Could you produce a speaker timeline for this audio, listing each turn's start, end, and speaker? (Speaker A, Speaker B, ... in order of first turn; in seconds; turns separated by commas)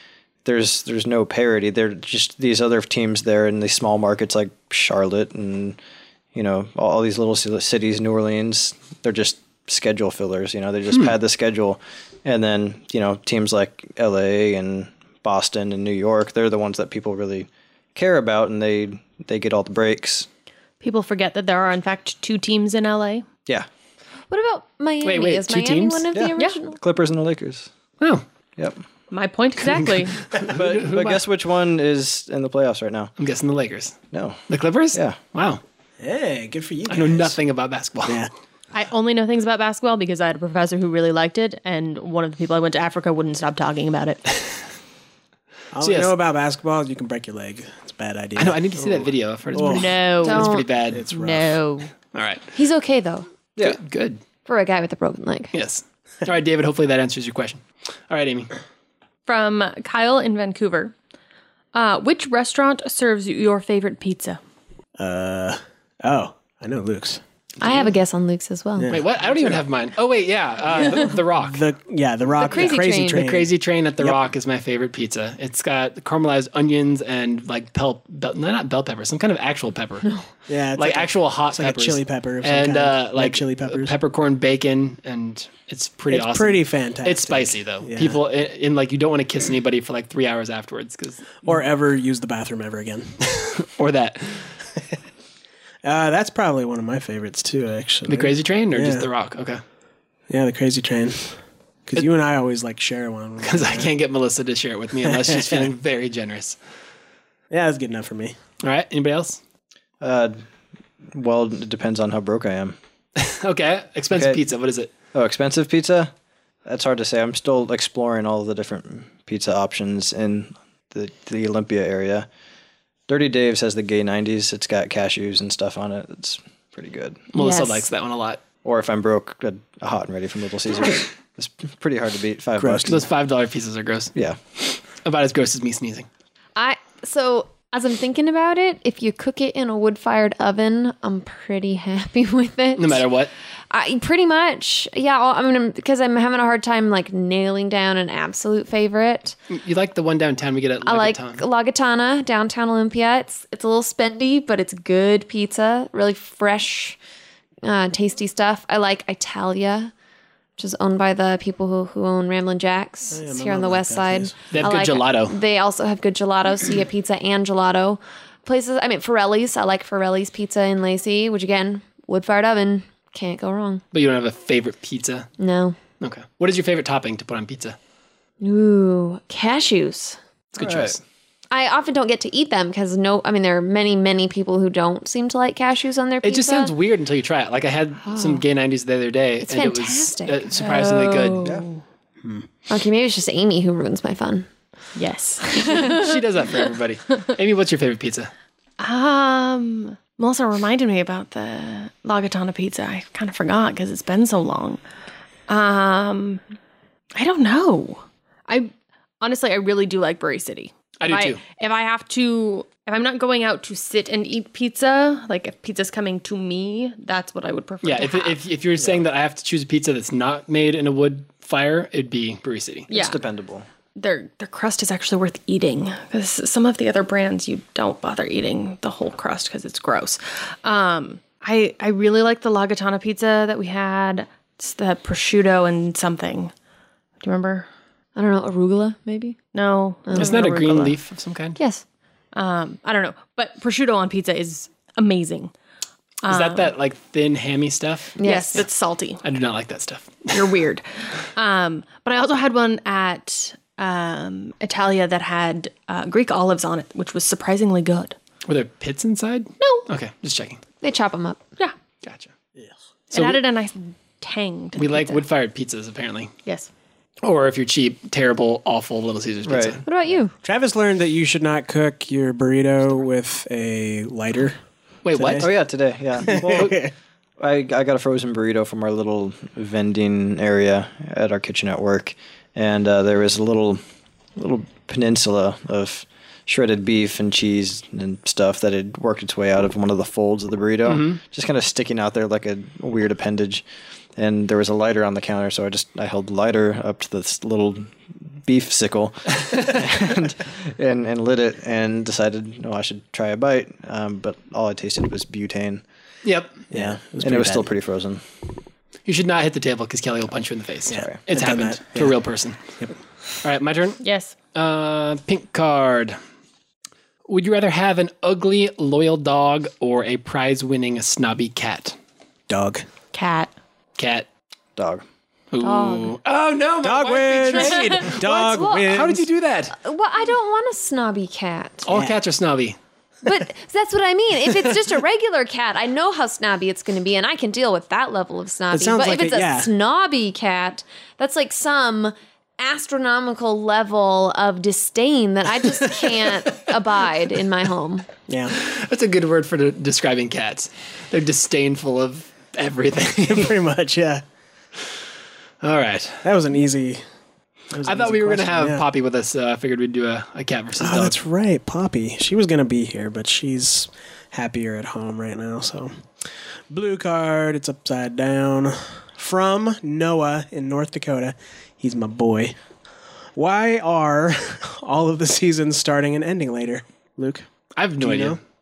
Speaker A: 0.5-5.8, Speaker A: 6.3-20.3, Speaker B: 20.8-23.3, Speaker C: 24.3-26.8, Speaker D: 25.0-26.1, Speaker A: 26.1-27.7, Speaker B: 29.1-30.2, Speaker D: 29.6-31.2, Speaker A: 30.5-33.1, Speaker D: 33.2-34.0, Speaker A: 34.1-34.4, Speaker D: 34.5-35.6, Speaker E: 36.0-37.4, Speaker D: 36.9-38.2, Speaker E: 38.0-38.3, Speaker B: 38.7-44.2, Speaker E: 45.7-50.0, Speaker D: 45.8-46.1, Speaker D: 48.4-51.1, Speaker B: 49.6-50.6, Speaker C: 50.2-50.6, Speaker E: 50.9-51.6, Speaker B: 51.1-51.9, Speaker D: 52.1-52.5, Speaker C: 52.5-53.3, Speaker D: 53.6-54.2, Speaker C: 54.5-55.5, Speaker D: 55.5-58.5, Speaker B: 59.3-60.9, Speaker B: 61.7-64.4, Speaker E: 65.0-67.2, Speaker C: 67.6-68.9, Speaker D: 67.6-67.9, Speaker E: 68.8-69.6, Speaker D: 68.9-71.6, Speaker E: 70.7-74.2, Speaker C: 72.4-73.2, Speaker D: 72.5-80.1, Speaker E: 80.5-84.0, Speaker D: 80.8-91.5, Speaker E: 86.1-88.2, Speaker E: 91.4-93.2, Speaker D: 93.3-94.5, Speaker E: 95.8-99.1, Speaker D: 98.1-99.6, Speaker E: 100.3-103.9, Speaker D: 103.4-106.6, Speaker E: 105.0-105.7, Speaker E: 107.5-108.4, Speaker D: 108.6-109.4, Speaker A: 110.0-110.4, Speaker A: 111.1-112.8, Speaker D: 113.2-114.9, Speaker A: 114.1-114.4, Speaker A: 115.1-116.1, Speaker A: 116.7-122.3, Speaker A: 123.1-127.2, Speaker D: 127.3-128.4, Speaker C: 127.4-127.9, Speaker A: 128.6-133.1, Speaker E: 132.6-133.0, Speaker D: 132.9-134.1, Speaker D: 135.0-136.1, Speaker C: 136.6-143.1, Speaker D: 142.8-143.3, Speaker C: 143.7-149.4, Speaker D: 149.5-151.4, Speaker C: 150.8-157.0, Speaker C: 157.6-159.9, Speaker C: 160.6-173.8, Speaker E: 163.1-164.5, Speaker D: 164.5-165.4, Speaker D: 173.9-175.3, Speaker C: 175.4-175.8, Speaker D: 176.0-177.8, Speaker C: 178.4-180.2, Speaker D: 180.5-181.0, Speaker A: 180.6-181.0, Speaker C: 181.5-186.7, Speaker D: 186.2-191.5, Speaker C: 188.1-188.4, Speaker C: 189.4-191.4, Speaker B: 190.7-191.8, Speaker C: 192.7-194.5, Speaker B: 195.0-196.2, Speaker C: 195.6-195.8, Speaker D: 195.8-198.3, Speaker B: 198.8-204.8, Speaker B: 205.5-206.4, Speaker B: 207.2-218.4, Speaker D: 211.0-211.4, Speaker D: 217.8-222.9, Speaker B: 222.9-223.2, Speaker A: 222.9-223.7, Speaker B: 224.0-236.5, Speaker B: 237.2-237.7, Speaker C: 238.2-239.4, Speaker B: 239.5-241.0, Speaker C: 240.1-240.4, Speaker D: 240.2-241.6, Speaker C: 241.6-241.8, Speaker B: 242.3-245.5, Speaker B: 246.2-246.7, Speaker D: 246.3-248.7, Speaker C: 248.2-248.6, Speaker B: 248.2-249.2, Speaker D: 249.2-250.5, Speaker B: 250.3-258.2, Speaker D: 258.5-260.6, Speaker B: 259.6-259.9, Speaker C: 260.8-261.4, Speaker D: 262.0-262.3, Speaker B: 263.1-265.2, Speaker D: 263.1-263.4, Speaker D: 264.8-266.3, Speaker B: 266.4-266.7, Speaker D: 267.2-269.8, Speaker A: 269.4-269.8, Speaker C: 269.9-270.3, Speaker E: 270.4-274.6, Speaker D: 275.1-275.6, Speaker E: 275.1-275.5, Speaker A: 275.4-283.8, Speaker E: 276.2-276.9, Speaker A: 284.4-293.7, Speaker D: 290.9-291.2, Speaker A: 294.2-305.8, Speaker D: 306.2-306.6, Speaker E: 306.7-307.7, Speaker A: 306.7-308.2, Speaker D: 309.1-312.6, Speaker E: 310.9-312.2, Speaker D: 313.4-314.0, Speaker B: 314.0-314.4, Speaker D: 314.5-316.2, Speaker D: 317.3-322.0, Speaker E: 322.5-322.9, Speaker B: 323.1-323.5, Speaker D: 324.0-324.3, Speaker A: 324.8-325.0, Speaker D: 325.5-329.8, Speaker C: 325.6-326.1, Speaker E: 326.8-329.3, Speaker C: 328.2-328.9, Speaker C: 329.8-331.9, Speaker D: 331.9-332.8, Speaker E: 331.9-332.2, Speaker C: 333.2-348.1, Speaker E: 338.7-339.7, Speaker E: 348.3-348.6, Speaker D: 348.6-353.6, Speaker E: 353.3-354.2, Speaker D: 355.6-356.2, Speaker E: 356.2-357.0, Speaker E: 357.7-358.9, Speaker D: 357.8-361.2, Speaker E: 360.8-366.0, Speaker E: 366.7-372.6, Speaker E: 373.4-377.5, Speaker D: 377.8-378.4, Speaker E: 378.0-378.4